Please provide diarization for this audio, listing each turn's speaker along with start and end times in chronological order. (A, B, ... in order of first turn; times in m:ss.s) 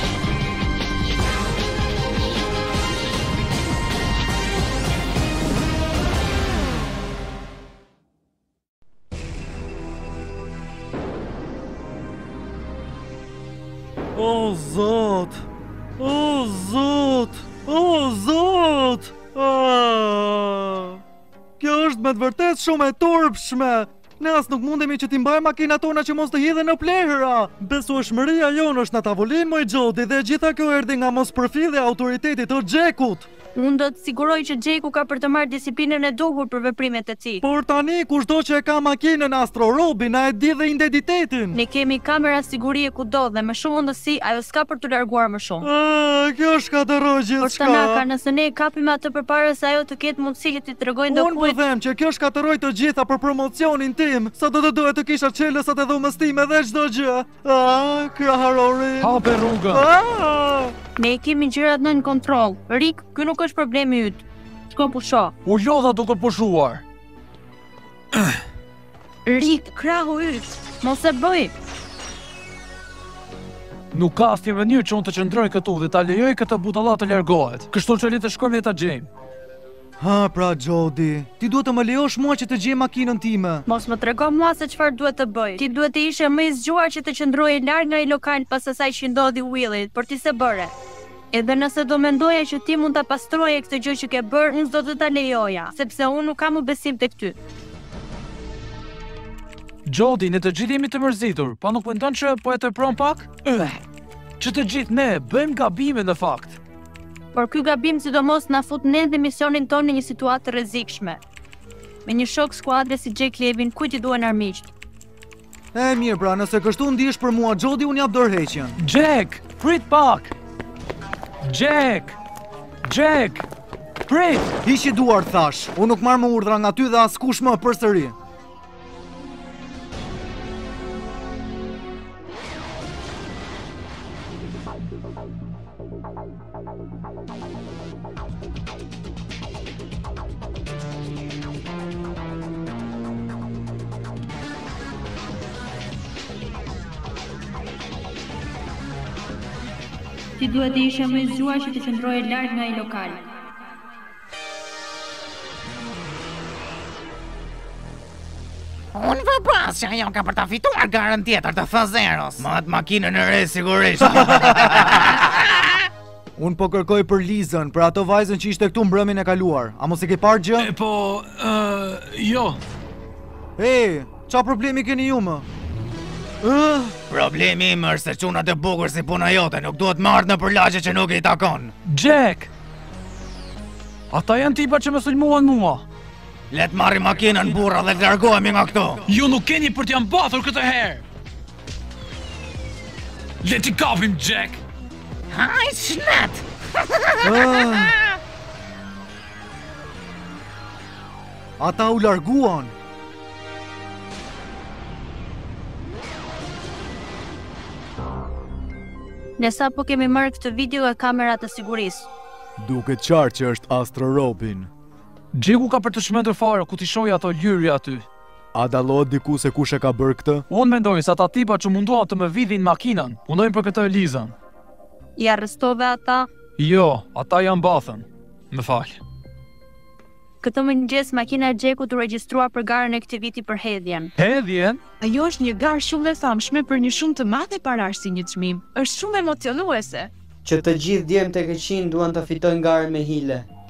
0:14.2-0:15.5 A
0:16.0-0:21.0 A
0:21.6-0:33.3 A
0:33.6-0:37.4 B
0:37.4-0:41.6 A
0:41.5-0:45.7 B
0:45.6-0:48.0 A
0:47.4-0:51.6 B
0:51.1-1:00.8 A
0:59.0-0:59.9 C
1:01.0-1:05.3 B
1:05.4-1:06.8 C
1:09.3-1:11.5 B
1:13.9-1:19.1 C
1:20.0-1:23.6 A
1:23.7-1:30.7 B
1:31.3-1:37.4 B
1:39.9-1:43.8 C
1:44.4-1:46.6 C
1:47.3-1:51.2 B
1:52.0-1:54.7 B
1:55.7-1:58.8 A
1:58.8-2:00.3 C
2:01.5-2:02.2 C
2:02.8-2:03.5 C
2:04.1-2:04.5 C
2:04.6-2:08.1 A
2:30.4-2:33.3 B
2:38.9-2:45.5 D
2:44.0-2:44.7 A
2:46.4-2:50.7 A
2:50.6-2:52.6 C
2:53.6-2:55.5 A
2:56.4-2:57.0 A
2:57.1-3:01.7 D
3:01.9-3:02.5 C
3:04.1-3:05.8 C
3:06.5-3:09.0 D
3:09.1-3:11.0 C
3:13.4-3:14.6 C
3:15.3-3:16.4 D
3:17.0-3:17.5 D
3:17.2-3:17.9 A
3:21.6-3:22.7 A
3:29.4-3:32.1 B
3:32.6-3:34.7 A
3:35.3-3:38.1 C
3:38.5-3:40.5 A
3:40.5-3:44.3 C
3:45.2-3:46.3 B
3:46.6-3:49.0 C
3:50.4-3:54.1 B
3:54.2-3:54.8 C
3:55.0-4:00.1 E
4:00.4-4:03.5 F